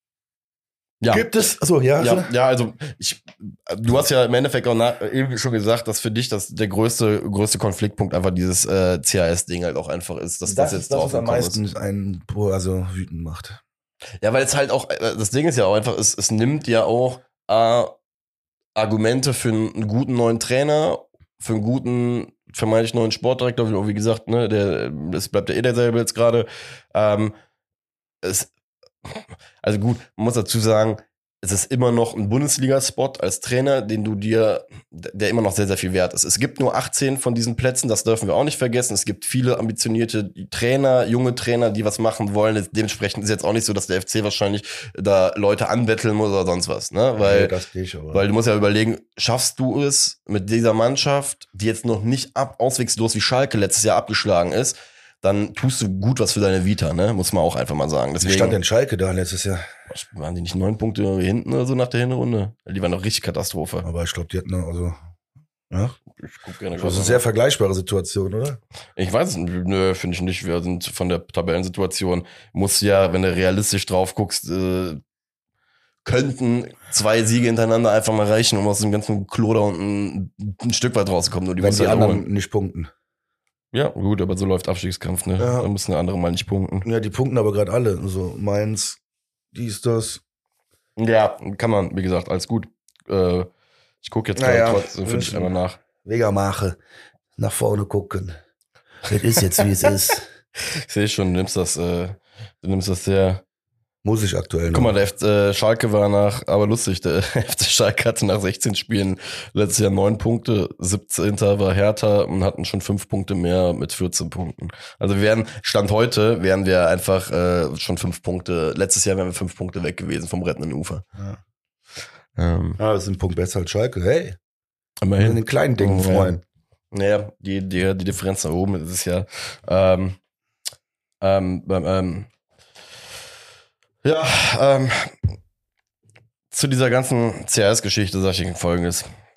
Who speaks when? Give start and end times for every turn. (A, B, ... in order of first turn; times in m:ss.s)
0:01.0-0:01.3 A
0:01.1-0:02.3 B
0:02.0-0:11.6 A
0:10.4-0:13.6 B
0:14.2-0:17.9 A
0:18.8-0:27.3 A
0:28.2-0:28.5 A
0:29.0-0:47.5 A
0:47.2-0:48.2 B
0:48.1-0:58.6 A
0:58.2-0:59.6 B
0:59.9-1:03.9 A
1:03.8-1:05.0 B
1:05.7-1:06.0 B
1:06.2-1:07.2 A
1:06.8-1:08.6 B
1:09.0-1:15.0 A
1:16.0-1:22.2 A
1:21.6-1:22.9 B
1:23.7-1:26.9 A
1:25.4-1:25.7 B
1:26.8-1:29.0 B
1:29.5-1:30.2 B
1:31.0-1:33.5 A
1:34.0-1:35.8 A
1:34.4-1:36.8 B
1:37.4-1:38.3 B
1:39.0-1:40.2 B
1:40.8-1:43.4 A
1:44.0-1:44.9 B
1:44.7-2:01.0 A
2:02.4-2:02.8 A
2:02.8-2:04.4 B
2:05.0-2:06.4 A
2:05.2-2:06.4 B
2:06.9-2:10.2 A
2:11.2-2:12.3 A
2:14.0-2:15.2 A
2:16.5-2:19.0 A